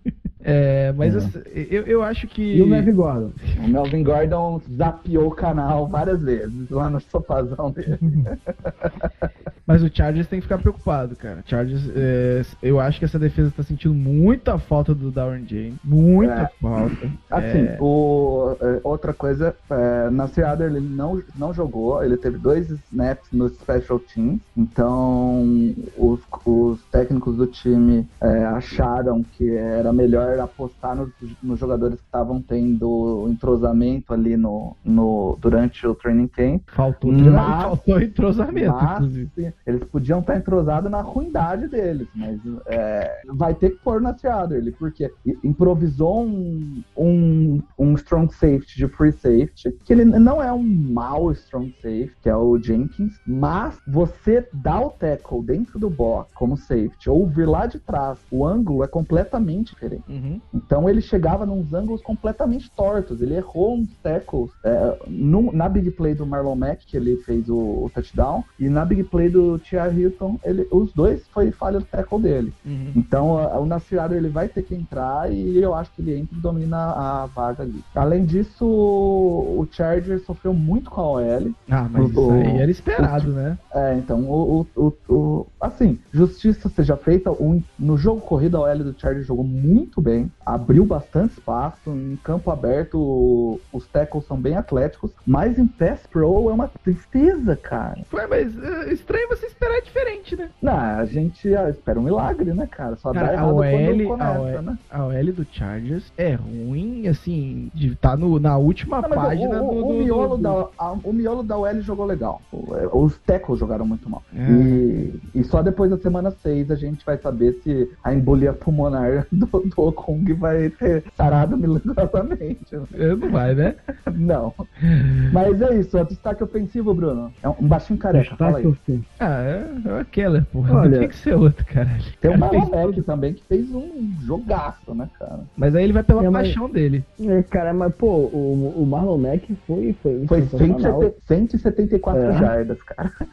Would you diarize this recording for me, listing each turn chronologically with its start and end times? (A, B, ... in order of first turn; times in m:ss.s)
0:00.4-0:02.9 A
0:01.0-0:01.3 B
0:02.5-0:03.4 B
0:03.6-0:09.1 C
0:08.0-0:08.3 B
0:09.7-0:17.8 A
0:16.2-0:37.8 C
0:36.7-0:39.3 A
0:38.5-1:38.0 C
1:00.1-1:00.4 A
1:12.6-1:13.0 A
1:21.7-1:23.6 A
1:38.1-1:40.5 A
1:40.6-1:44.8 C
1:43.1-1:50.6 A
1:49.0-2:03.0 C
1:54.3-1:54.8 A
2:02.9-2:03.8 A
2:04.1-2:04.6 C
2:04.9-2:05.2 A
2:05.3-2:08.7 C
2:08.1-2:09.0 B
2:09.2-2:13.0 A
2:10.7-2:11.1 B
2:12.2-2:15.5 C
2:15.6-2:17.1 A
2:16.2-2:16.6 B
2:17.2-2:21.1 B
2:20.3-2:23.1 C
2:22.1-2:22.5 B